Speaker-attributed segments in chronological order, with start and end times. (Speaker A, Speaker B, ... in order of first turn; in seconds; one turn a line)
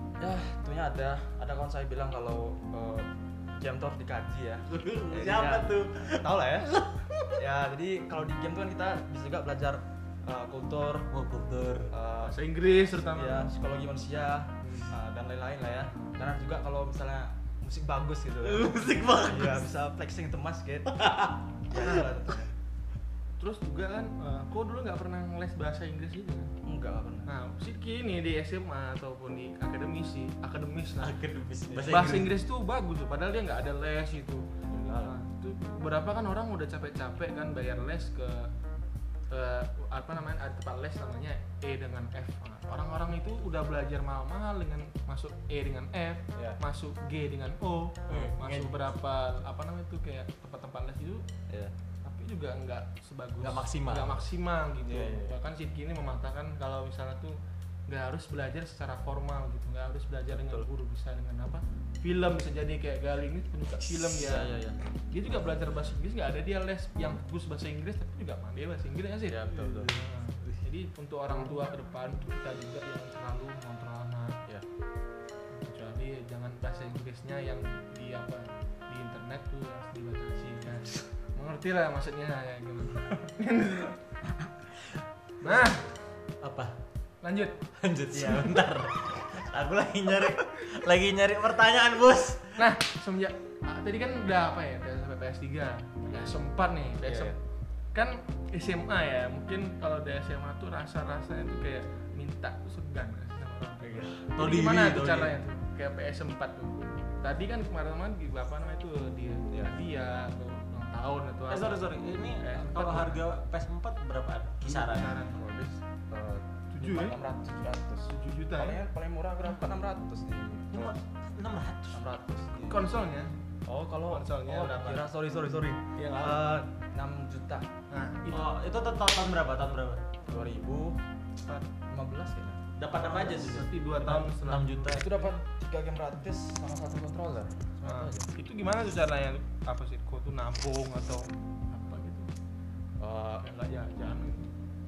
Speaker A: 0.2-11.1
Speaker B: 4.7-7.4
Speaker B: 11.1-11.9
Speaker A: 11.9-12.4
Speaker C: 12.2-13.5
Speaker A: 12.9-22.5
Speaker C: 14.6-14.9
Speaker B: 18.4-19.7
Speaker B: 20.9-22.0
Speaker C: 23.4-26.6
Speaker A: 26.6-27.3
Speaker C: 27.3-31.2
Speaker B: 31.0-32.4
Speaker A: 31.7-32.1
Speaker C: 31.9-38.5
Speaker A: 34.7-35.1
Speaker C: 39.3-51.3
Speaker B: 48.1-48.8
Speaker A: 51.5-51.7
Speaker C: 52.0-64.5
Speaker B: 53.4-54.3
Speaker A: 54.8-55.4
Speaker A: 60.3-60.7
Speaker B: 63.8-64.2
Speaker A: 64.2-64.8
Speaker C: 65.1-74.4
Speaker A: 69.3-69.9
Speaker B: 69.5-70.6
Speaker C: 75.5-84.0
Speaker C: 85.4-85.9
Speaker B: 86.4-86.8
Speaker C: 87.2-87.6
Speaker B: 87.8-92.7
Speaker A: 88.1-88.6
Speaker C: 92.6-97.4
Speaker A: 97.0-97.4
Speaker C: 97.9-113.2
Speaker A: 103.8-104.3
Speaker B: 104.4-105.3
Speaker B: 111.5-115.2
Speaker C: 114.6-115.4
Speaker A: 115.3-121.0
Speaker C: 116.7-117.2
Speaker C: 118.1-118.8
Speaker B: 120.7-122.0
Speaker A: 121.9-122.8
Speaker C: 122.7-123.3
Speaker A: 123.7-127.7
Speaker C: 124.1-125.1
Speaker C: 126.0-126.6
Speaker C: 127.9-128.4
Speaker B: 128.3-130.1
Speaker A: 130.3-131.0
Speaker A: 131.9-133.5
Speaker B: 132.8-135.1
Speaker C: 133.3-135.3
Speaker A: 134.9-138.3
Speaker C: 137.8-142.3
Speaker A: 143.0-143.5
Speaker C: 143.4-144.6